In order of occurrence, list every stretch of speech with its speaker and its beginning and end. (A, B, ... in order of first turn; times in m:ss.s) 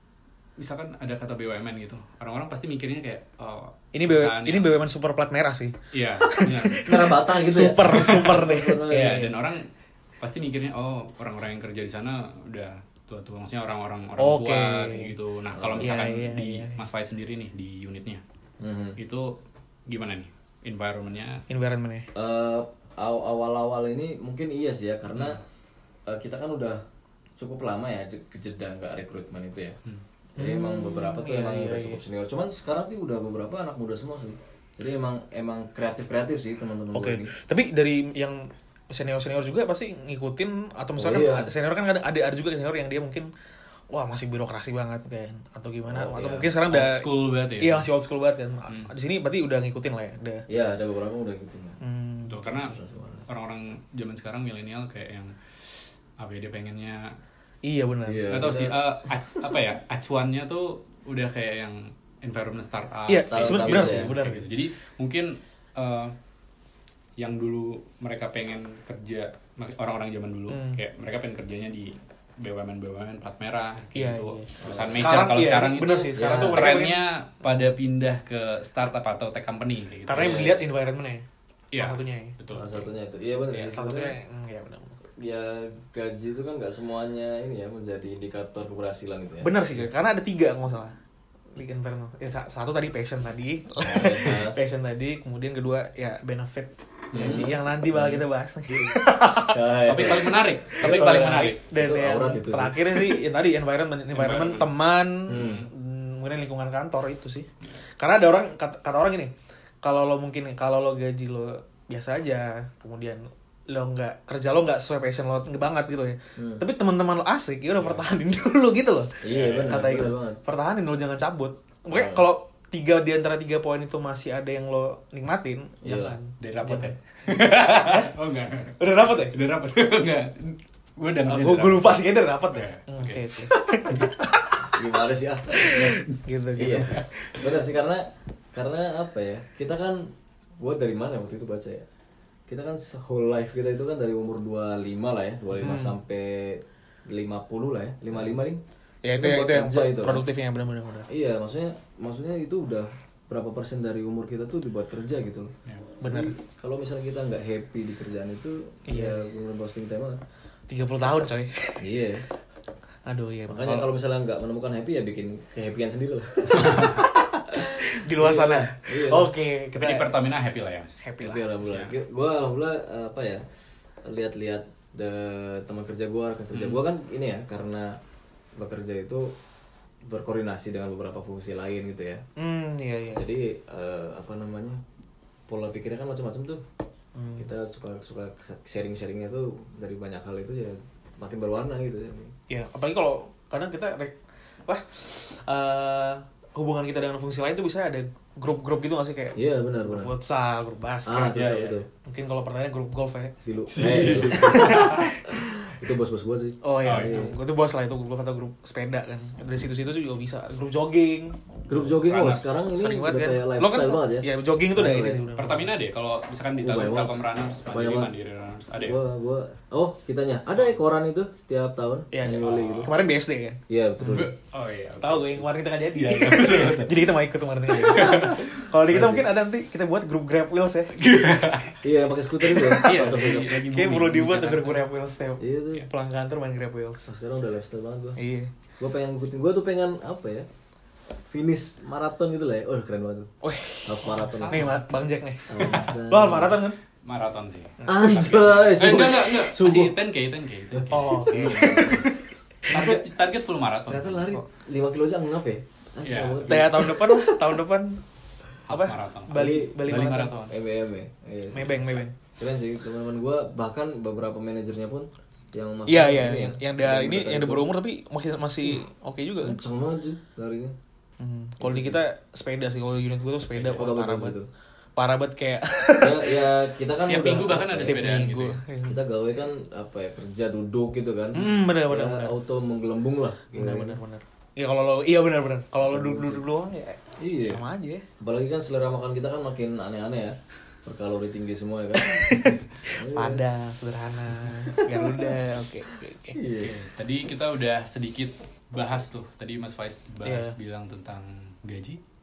0:00.6-0:04.8 A
0:03.9-0:09.3 B
0:05.9-0:07.0 A
0:06.8-0:09.3 C
0:07.8-0:09.7 A
0:10.2-0:18.2 A
0:14.2-0:15.1 B
0:15.5-0:16.0 C
0:15.8-0:16.8 B
0:18.6-0:19.0 C
0:19.0-0:21.4 A
0:21.5-0:22.1 B
0:22.1-0:25.4 C
0:26.1-0:26.8 C
0:27.4-0:29.8 C
0:30.4-0:32.0 B
0:30.4-0:37.3 C
0:36.9-0:43.3 B
0:41.0-0:41.5 C
0:43.9-0:47.0 B
0:45.9-0:46.5 C
0:46.7-0:47.9 A
0:47.6-0:50.4 B
0:50.5-0:51.8 C
0:51.8-0:52.4 B
0:52.3-0:55.3 A
0:52.4-0:53.3 C
0:56.2-0:57.2 A
0:57.6-0:58.3 B
0:58.0-0:59.4 C
0:58.3-1:06.1 A
1:03.1-1:04.5 B
1:03.3-1:04.2 C
1:07.2-1:20.4 A
1:10.5-1:10.8 B
1:13.9-1:17.0 B
1:14.6-1:15.2 C
1:16.2-1:16.8 C
1:20.1-1:22.4 B
1:20.1-1:20.6 C
1:21.7-1:22.9 A
1:22.5-1:24.2 C
1:23.5-1:25.0 B
1:25.2-1:29.6 C
1:29.4-1:31.0 B
1:31.5-1:40.1 B
1:33.8-1:34.6 C
1:37.1-1:37.5 A
1:37.1-1:38.2 C
1:39.2-1:43.2 C
1:39.8-1:41.6 A
1:40.7-1:47.5 B
1:44.1-1:45.7 A
1:45.3-1:45.6 C
1:48.0-2:06.9 B
1:56.4-1:56.6 C
1:57.8-1:58.0 A
1:59.2-2:00.4 C
1:59.3-1:59.9 A
2:01.9-2:02.2 C
2:05.8-2:06.2 C
2:06.4-2:14.1 A
2:07.6-2:08.1 B
2:08.8-2:09.3 B
2:11.2-2:14.8 B
2:14.6-2:15.9 C
2:15.5-2:17.1 B
2:16.6-2:21.8 C
2:22.5-2:28.6 C
2:25.6-2:26.0 B
2:29.0-2:31.1 B
2:29.1-2:30.2 C
2:31.1-2:40.2 C
2:36.0-2:36.3 B
2:38.9-2:39.2 B
2:40.7-2:41.9 B
2:41.8-2:42.2 C
2:43.0-2:43.9 B
2:43.5-2:47.1 C
2:46.6-2:50.1 B
2:47.8-2:49.3 C
2:49.7-2:51.0 A
2:51.0-2:51.5 B
2:51.2-2:53.4 C
2:51.6-2:51.9 A
2:54.0-2:58.0 C
2:56.5-2:56.8 A
2:58.6-2:59.3 C
3:00.0-3:02.2 C
3:02.4-3:03.2 B
3:03.1-3:04.8 C
3:05.5-3:06.6 C
3:07.2-3:07.5 B
3:07.4-3:12.3 C
3:12.5-3:21.4 B
3:19.3-3:20.1 C
3:21.0-3:21.9 C
3:21.3-3:21.8 A
3:22.0-3:23.4 B
3:23.4-3:27.3 C
3:23.7-3:25.1 A
3:23.9-3:25.4 B
3:26.6-3:31.4 B
3:26.8-3:27.3 A
3:31.7-3:35.2 C
3:31.7-3:32.4 A
3:32.7-3:35.7 B
3:35.3-3:39.0 A
3:36.6-3:38.1 C
3:38.7-3:42.9 C
3:42.1-3:44.3 B
3:42.2-3:42.9 A
3:43.7-3:44.3 C
3:44.1-3:47.1 A
3:45.0-3:50.9 B
3:47.7-3:48.6 A
3:48.9-3:49.3 C
3:50.9-3:51.8 A
3:51.8-3:53.6 C
3:52.4-3:57.1 B
3:52.6-3:54.9 A
3:55.4-3:55.9 C
3:57.0-3:58.2 C
3:58.2-3:58.5 B
3:58.8-4:00.4 C
4:01.3-4:03.3 C
4:03.4-4:06.8 B
4:03.8-4:04.8 C
4:04.1-4:04.8 A
4:05.5-4:06.6 C
4:07.0-4:12.0 A
4:07.8-4:08.4 B
4:07.9-4:10.0 C
4:10.7-4:12.1 C
4:10.9-4:12.3 B
4:12.7-4:14.3 A
4:12.7-4:13.0 C
4:13.9-4:17.5 C
4:16.0-4:16.9 A
4:16.5-4:18.0 B
4:18.7-4:20.5 A
4:18.7-4:20.4 B
4:19.3-4:19.9 C
4:20.5-4:27.7 C
4:21.5-4:22.1 B
4:25.9-4:29.6 B
4:29.4-4:30.7 C
4:31.2-4:34.4 B
4:31.6-4:32.0 C
4:33.6-4:33.8 A
4:33.7-4:34.5 C
4:35.0-4:36.4 B
4:36.0-4:38.1 C
4:37.1-4:38.6 A
4:37.8-4:39.0 B
4:38.9-4:44.0 C
4:41.3-4:42.3 B
4:43.5-4:48.0 B
4:45.8-4:46.4 C
4:47.2-4:47.6 C
4:48.2-4:53.4 C
4:52.0-4:56.4 B
4:54.7-4:55.3 C
4:56.3-4:56.8 C
4:56.6-5:02.0 A
5:00.2-5:00.5 B